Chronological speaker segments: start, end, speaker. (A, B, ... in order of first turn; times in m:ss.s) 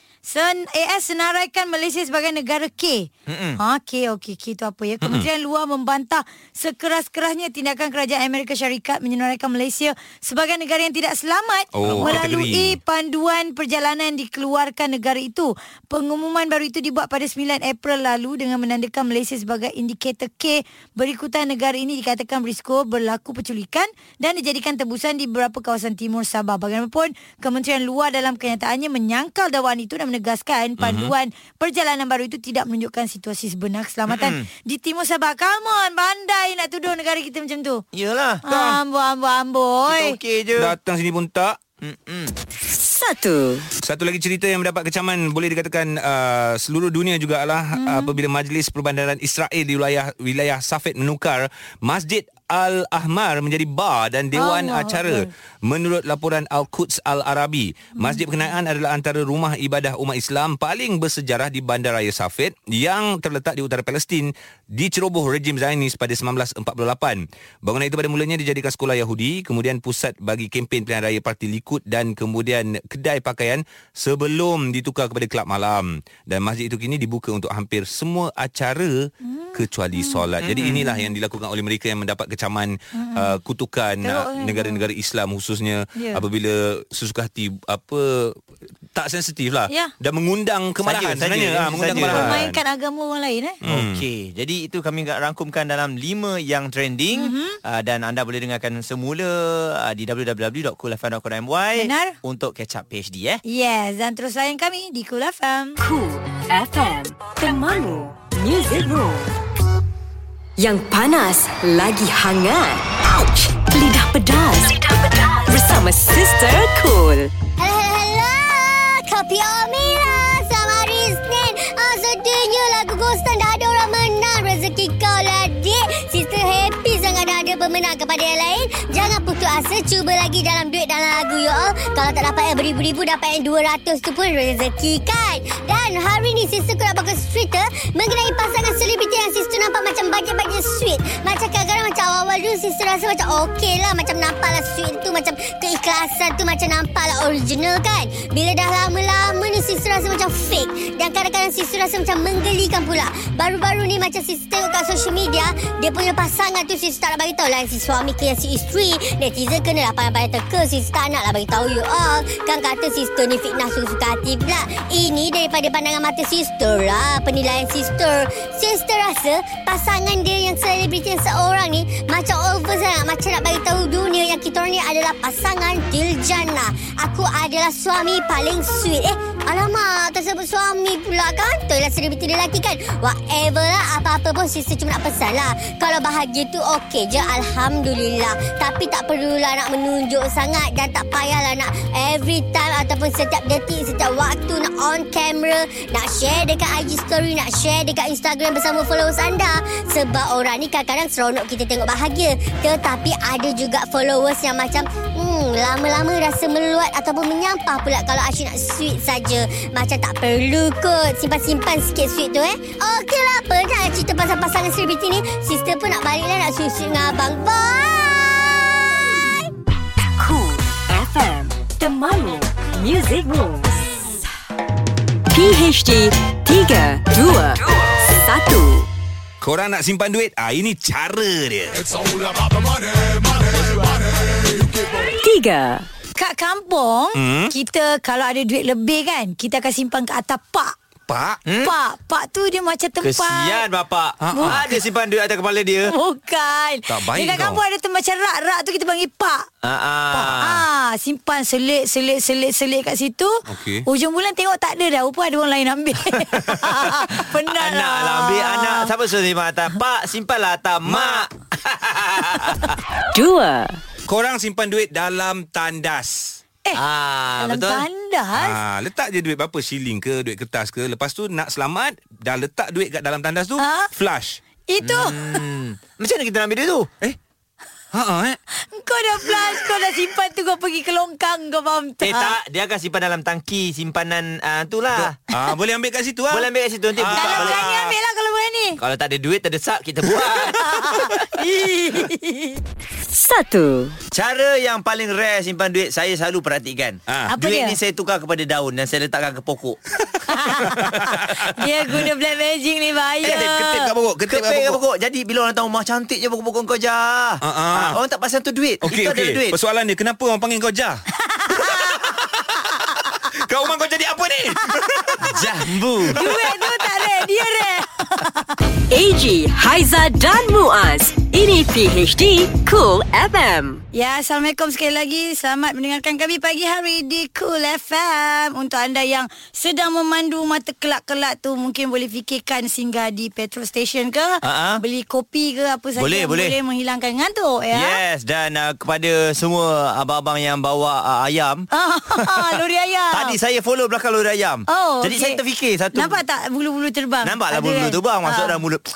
0:00.2-0:37.8 A
0:03.3-0:03.6 B
0:11.7-0:12.8 C
0:30.8-0:31.1 C
0:34.1-0:34.5 B
0:37.9-0:38.4 B
0:38.4-0:40.2 A
0:38.5-0:38.8 C
0:39.9-0:40.8 B
0:40.6-0:41.6 C
0:41.8-0:42.3 B
0:42.6-0:43.7 D
0:43.8-1:28.4 C
0:47.7-0:48.2 A
0:54.3-0:55.3 A
0:58.0-0:58.5 A
1:19.2-1:20.2 A
1:20.4-1:20.8 B
1:20.8-1:21.1 A
1:22.9-1:23.4 A
1:24.0-1:24.8 A
1:25.9-1:26.2 A
1:28.9-1:32.6 C
1:30.8-1:32.4 B
1:31.9-1:33.6 A
1:33.6-1:34.0 C
1:33.6-1:43.4 B
1:37.1-1:37.6 A
1:41.8-1:42.2 A
1:43.4-1:45.8 A
1:45.8-1:49.3 D
1:50.6-1:57.3 D
1:57.6-3:39.5 E
3:40.2-3:44.1 D
3:45.3-3:48.9 D
3:49.4-3:52.0 C
3:55.0-3:55.9 D
3:56.2-4:00.7 A
3:57.1-3:57.5 C
4:01.1-4:01.4 C
4:01.4-4:01.7 B
4:01.6-4:03.6 A
4:03.0-4:05.9 B
4:04.2-4:04.7 C
4:04.3-4:04.6 A
4:05.8-4:09.5 A
4:06.9-4:07.6 C
4:09.6-4:10.6 B
4:10.1-4:18.9 A
4:13.5-4:13.8 C
4:17.1-4:22.8 B
4:20.8-4:21.3 C
4:23.1-4:23.8 D
4:24.1-4:26.4 C
4:26.7-4:27.8 B
4:27.4-4:28.6 A
4:28.3-4:34.4 C
4:33.6-4:33.9 A
4:34.7-4:35.2 A
4:34.8-4:36.9 B
4:37.9-4:38.4 C
4:38.7-4:42.4 A
4:42.0-4:45.2 B
4:45.0-4:47.9 C
4:46.3-4:47.6 B
4:47.1-4:48.8 A
4:48.8-4:51.2 B
4:50.6-4:52.6 A
4:53.1-4:54.0 D
4:54.1-4:59.8 B
4:57.3-4:57.8 A
5:00.3-5:00.9 A
5:00.6-5:01.5 C
5:01.5-5:03.9 A
5:03.2-5:03.5 B
5:03.2-5:04.8 C
5:04.2-5:09.6 B
5:07.4-5:08.0 C
5:08.8-5:11.0 C
5:11.3-5:11.9 A
5:11.5-5:15.4 C
5:15.2-5:16.2 B
5:16.1-5:16.4 C
5:16.1-5:18.6 A
5:18.9-5:23.8 D
5:23.9-5:38.0 A
5:34.4-5:34.8 B
5:36.0-5:36.6 B
5:37.7-5:46.2 B
5:41.7-5:43.4 A
5:44.7-5:45.4 A
5:45.9-5:48.6 A
5:47.2-5:48.8 B